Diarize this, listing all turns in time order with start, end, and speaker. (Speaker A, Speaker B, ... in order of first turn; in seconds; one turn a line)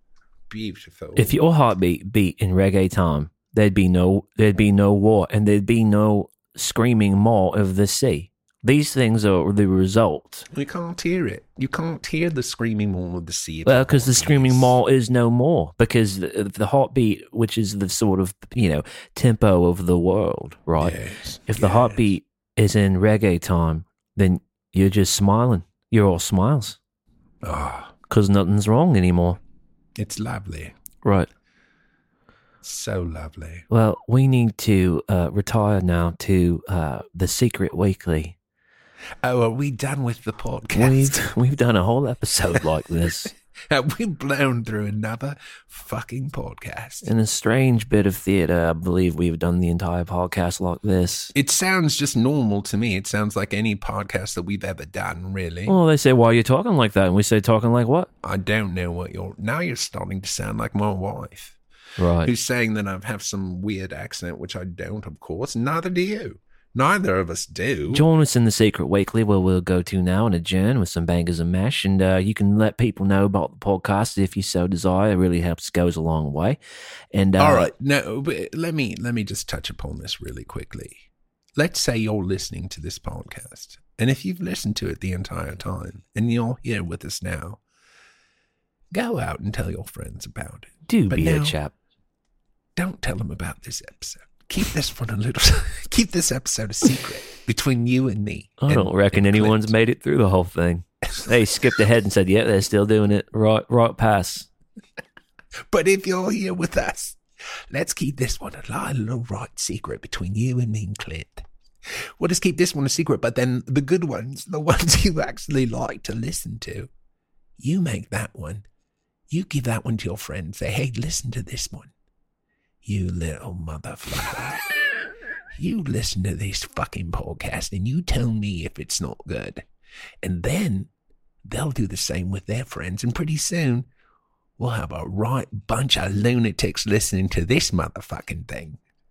Speaker A: 0.5-1.4
Speaker B: 1.2-10.5
Speaker A: 10.5-14.8
Speaker B: 13.7-21.0
Speaker A: 20.8-22.1
Speaker B: 21.5-26.8
Speaker A: 27.4-28.0
Speaker B: 28.1-29.4
Speaker A: 30.0-30.8
Speaker B: 31.0-31.3
Speaker A: 32.6-33.7
Speaker B: 33.7-38.4
Speaker A: 39.2-41.2
Speaker B: 40.7-43.3
Speaker A: 43.0-47.1
Speaker B: 47.0-51.3
Speaker A: 51.3-55.8
Speaker B: 55.7-58.1
Speaker A: 58.2-61.6
Speaker B: 62.0-62.3
Speaker A: 62.2-68.0
Speaker B: 67.9-76.6
Speaker B: 77.1-77.7
Speaker A: 77.4-81.0
Speaker A: 81.6-87.6
Speaker A: 88.9-91.6
Speaker B: 90.9-91.7
Speaker A: 92.8-99.7
Speaker B: 98.6-104.5
Speaker A: 105.7-107.2
Speaker A: 107.7-111.4
Speaker A: 112.2-116.9
Speaker A: 117.6-118.6
Speaker A: 119.3-121.9
Speaker A: 122.8-124.7
Speaker A: 125.5-129.7
Speaker A: 130.2-130.9
Speaker A: 131.5-133.9
Speaker A: 134.6-138.8